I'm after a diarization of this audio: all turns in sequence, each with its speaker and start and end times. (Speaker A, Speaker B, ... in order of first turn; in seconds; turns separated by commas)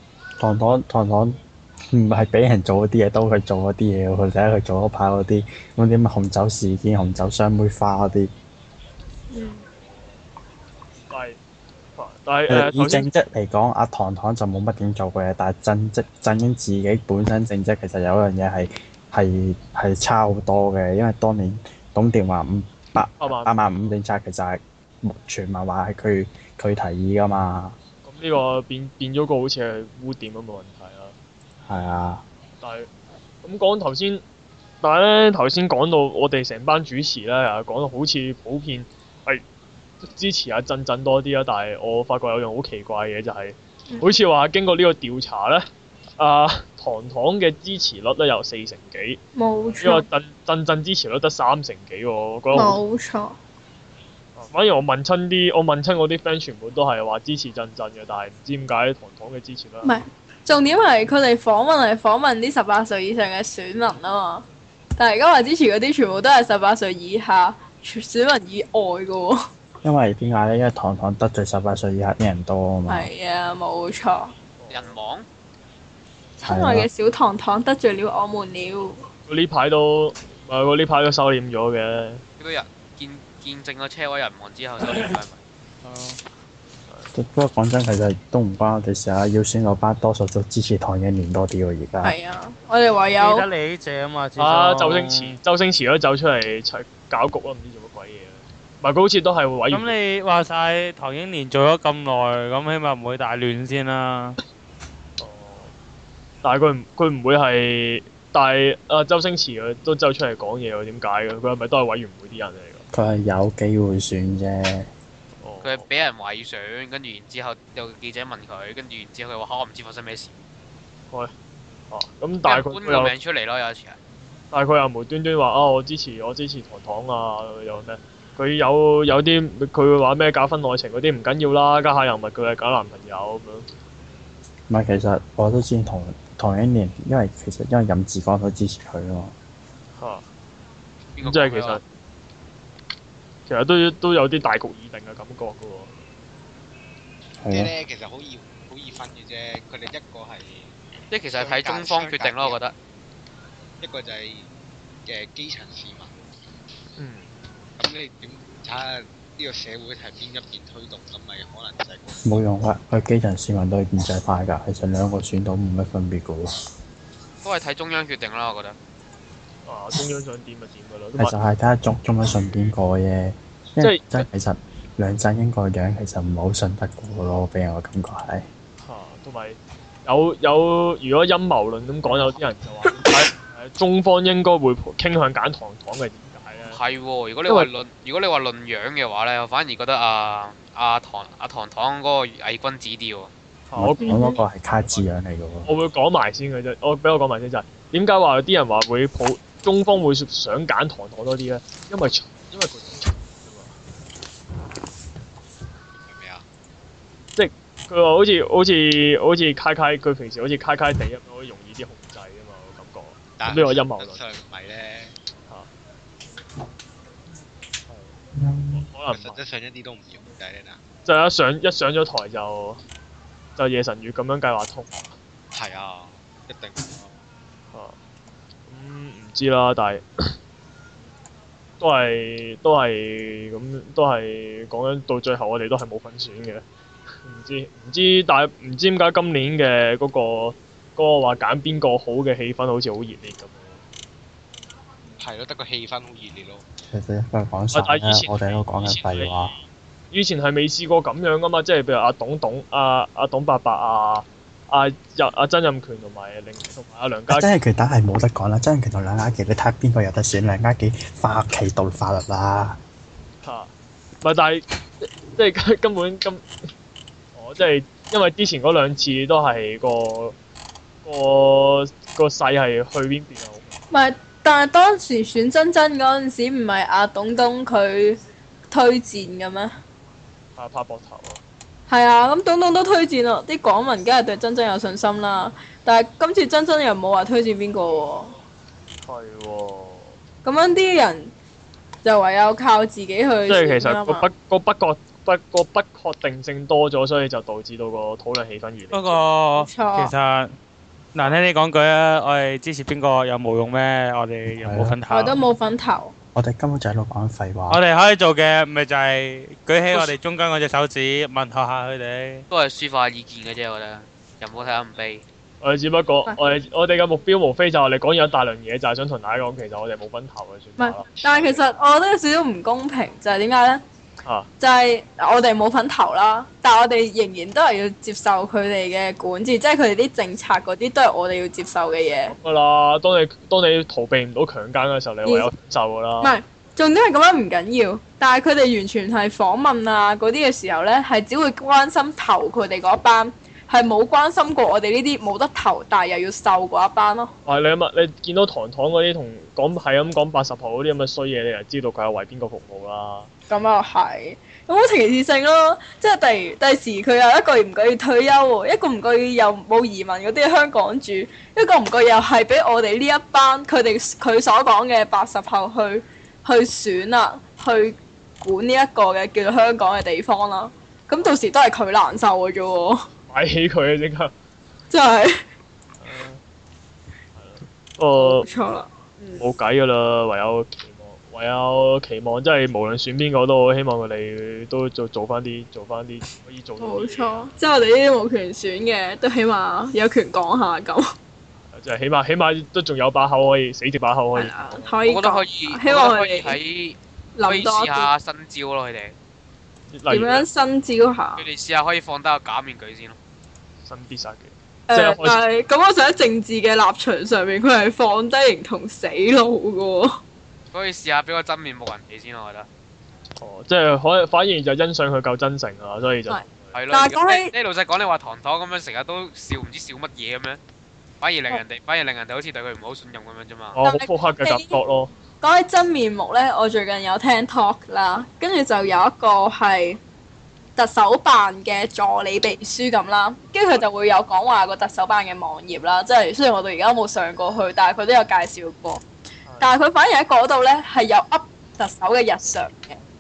Speaker A: 0.4-1.4, Speaker A: 1.9-8.3, Speaker B: 9.3-9.6, Speaker C: 11.1-11.4, Speaker C: 12.0-13.1, Speaker A: 12.5-27.8, Speaker C: 23.2-23.6, Speaker C: 28.0-31.1, Speaker A: 31.6-32.2, Speaker C: 32.6-32.9, Speaker C: 33.4-34.2, Speaker C: 34.8-39.4, Speaker C: 40.0-45.7, Speaker C: 46.2-49.2, Speaker B: 49.4-50.1, Speaker C: 49.8-52.8, Speaker B: 52.5-53.4, Speaker C: 54.4-59.9, Speaker B: 59.8-64.4, Speaker B: 65.0-69.4, Speaker A: 69.8-73.1, Speaker B: 72.9-74.3, Speaker C: 74.6-75.0, Speaker D: 74.7-75.3, Speaker B: 76.4-79.0, Speaker A: 76.5-76.9, Speaker C: 79.3-82.2, Speaker D: 82.4-85.4, Speaker E: 85.8-86.2, Speaker A: 87.1-92.2, Speaker B: 92.0-93.5, Speaker E: 93.2-95.4, Speaker C: 94.4-100.0, Speaker E: 99.7-104.4, Speaker C: 105.2-105.7, Speaker C: 106.4-112.8, Speaker A: 112.9-114.9, Speaker C: 115.4-115.9, Speaker D: 115.6-120.3, Speaker C: 121.9-123.1, Speaker D: 122.5-124.0, Speaker C: 124.5-133.7, Speaker A: 134.7-139.3, Speaker C: 140.0-140.3, Speaker D: 141.2-141.8, Speaker C: 141.2-141.8, Speaker C: 143.5-145.9, Speaker A: 147.4-147.7, Speaker F: 147.5-150.7, Speaker D: 151.1-152.7, Speaker F: 151.3-152.6, Speaker F: 153.8-154.5, Speaker F: 155.1-156.1, Speaker C: 157.0-157.3, Speaker F: 157.8-162.2, Speaker A: 162.2-166.5, Speaker D: 167.4-168.8, Speaker C: 169.7-171.4, Speaker A: 171.2-178.5, Speaker C: 173.8-174.3, Speaker C: 178.8-186.8, Speaker D: 186.7-193.3, Speaker C: 187.5-187.7, Speaker C: 193.7-194.2, Speaker A: 193.8-195.7, Speaker B: 194.0-194.4, Speaker C: 195.7-203.8, Speaker F: 206.0-206.4, Speaker C: 207.4-214.2, Speaker F: 213.4-215.2, Speaker C: 217.9-218.2, Speaker C: 218.7-219.4, Speaker F: 219.1-220.8, Speaker C: 221.1-222.8, Speaker C: 223.6-225.2, Speaker F: 225.5-227.2, Speaker C: 227.7-228.0, Speaker C: 228.7-230.3, Speaker C: 231.8-236.7, Speaker C: 237.2-243.8, Speaker F: 245.2-246.6, Speaker A: 246.8-249.6, Speaker C: 247.7-249.6, Speaker C: 250.1-257.5, Speaker A: 257.3-262.8, Speaker C: 263.4-266.5, Speaker C: 267.4-270.4, Speaker C: 271.0-273.8, Speaker B: 273.9-278.2, Speaker B: 278.7-279.8, Speaker C: 280.6-281.4, Speaker B: 281.9-288.4, Speaker C: 289.1-290.2, Speaker B: 290.4-291.3, Speaker B: 292.0-294.3, Speaker C: 293.5-299.2, Speaker E: 298.9-300.5, Speaker B: 299.6-300.1, Speaker E: 301.1-305.4, Speaker A: 304.6-305.0, Speaker B: 305.1-306.1, Speaker A: 306.4-307.8, Speaker E: 307.7-312.4, Speaker D: 312.5-315.2, Speaker C: 315.6-321.6, Speaker B: 320.8-323.8, Speaker C: 324.2-324.5, Speaker B: 324.6-332.4, Speaker C: 332.3-336.3, Speaker B: 336.2-347.3, Speaker C: 347.5-353.3, Speaker B: 353.5-373.1, Speaker C: 373.3-374.3, Speaker B: 374.9-375.4, Speaker C: 376.0-376.4, Speaker C: 377.4-378.5, Speaker B: 378.2-379.4, Speaker C: 379.4-387.4, Speaker B: 386.8-391.1, Speaker C: 391.7-395.0, Speaker B: 394.4-396.6, Speaker D: 395.1-399.1, Speaker B: 397.4-398.1, Speaker C: 399.9-400.5, Speaker B: 400.1-401.5, Speaker D: 401.4-403.2, Speaker C: 403.9-405.4, Speaker B: 404.9-410.2, Speaker D: 410.7-412.7, Speaker C: 413.4-416.8, Speaker B: 416.3-417.5, Speaker D: 416.7-420.6, Speaker D: 421.2-423.8, Speaker C: 423.8-425.1, Speaker B: 423.8-424.8, Speaker B: 425.4-430.0, Speaker B: 430.8-439.0, Speaker C: 439.4-439.7, Speaker B: 439.6-443.0